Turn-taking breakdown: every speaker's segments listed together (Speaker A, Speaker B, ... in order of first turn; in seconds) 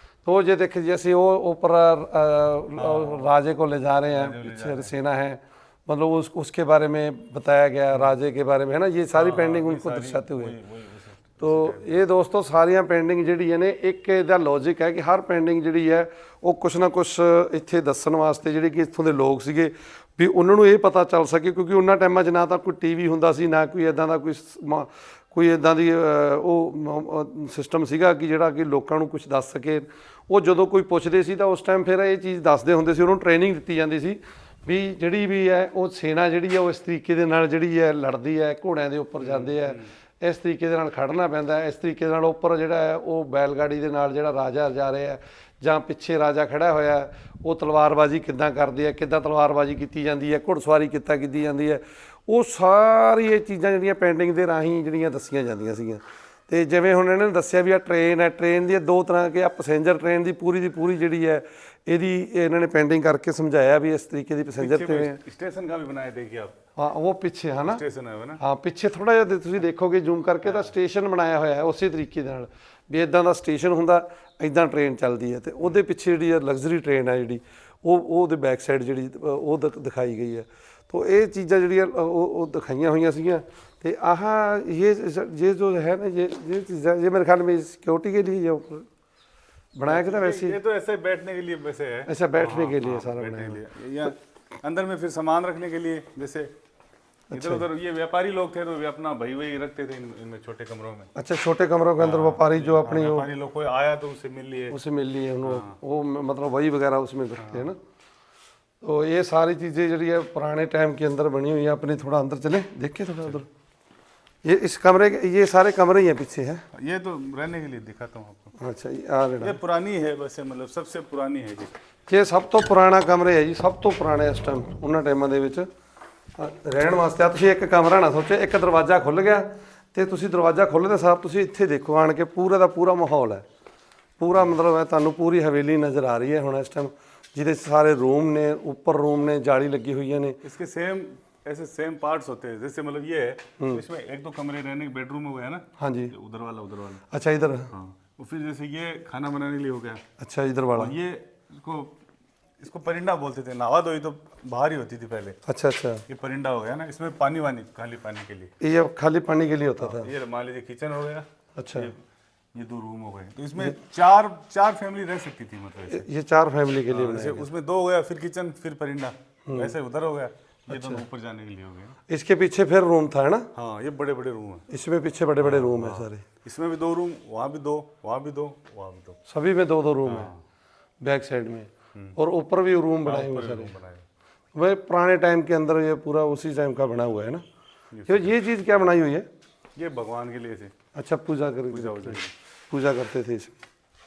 Speaker A: 0.3-10.6, 11.4-65.2, 66.8-67.8, 68.4-88.9, 89.8-90.6, 92.1-93.6, 97.3-97.7, 101.2-103.3, 104.7-107.8, 108.8-113.5, 114.4-116.6, 118.6-119.6, 122.1-125.7, 126.4-133.4, 134.2-140.4, 145.8-146.1, 147.1-147.7, 150.2-150.9, 155.5-156.0, 158.6-160.1, 161.6-161.9, 165.9-167.5, 169.5-169.7, 170.7-171.0, 172.1-173.5, 174.7-176.2, 179.3-180.3, 181.0-183.8, 184.6-187.4, 188.1-189.3, 190.9-192.2, 192.7-193.6
Speaker B: 2.8-3.3, 4.1-5.0, 9.1-12.0, 39.2-39.9, 64.6-66.5, 67.6-68.4, 70.5-70.7, 89.9-96.5, 97.3-101.1, 102.0-104.8, 105.4-105.8, 107.4-107.7, 116.7-118.5, 119.4-121.7, 140.4-147.1, 147.7-150.0, 150.7-151.9, 152.6-155.4, 156.1-158.5, 159.8-161.9, 162.6-166.1, 166.9-172.0, 173.6-174.7, 175.4-179.2, 180.0-180.4, 183.0-184.1, 187.9-188.3, 189.8-190.7, 191.7-192.3